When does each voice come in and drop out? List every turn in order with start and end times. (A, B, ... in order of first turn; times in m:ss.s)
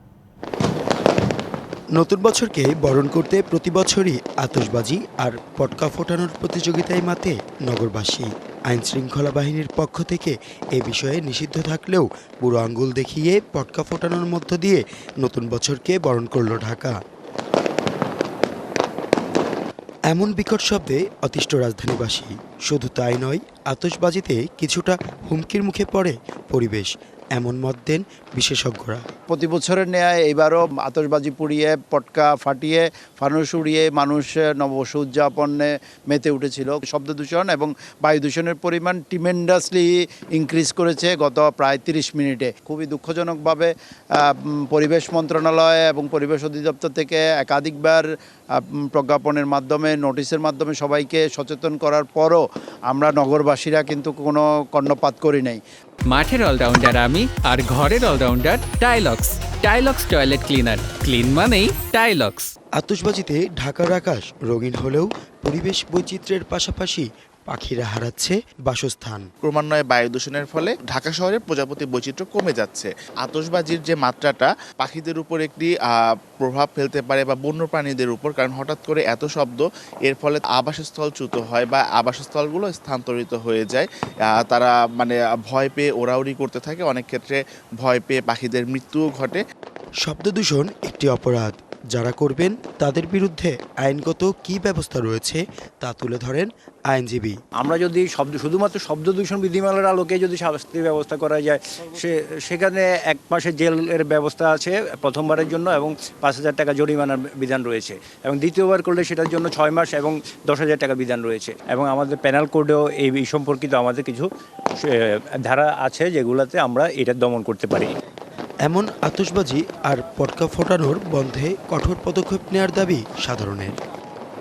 0:02.0-0:17.0 A
0:20.1-0:29.0 A
0:29.3-0:43.7 B
0:44.7-0:48.1 B
0:48.6-0:55.6 B
0:56.1-1:02.5 C
1:02.8-1:09.3 A
1:09.4-1:29.4 D
1:30.0-1:37.3 A
1:37.6-1:54.3 E
1:54.8-1:57.9 E
1:58.6-2:03.8 A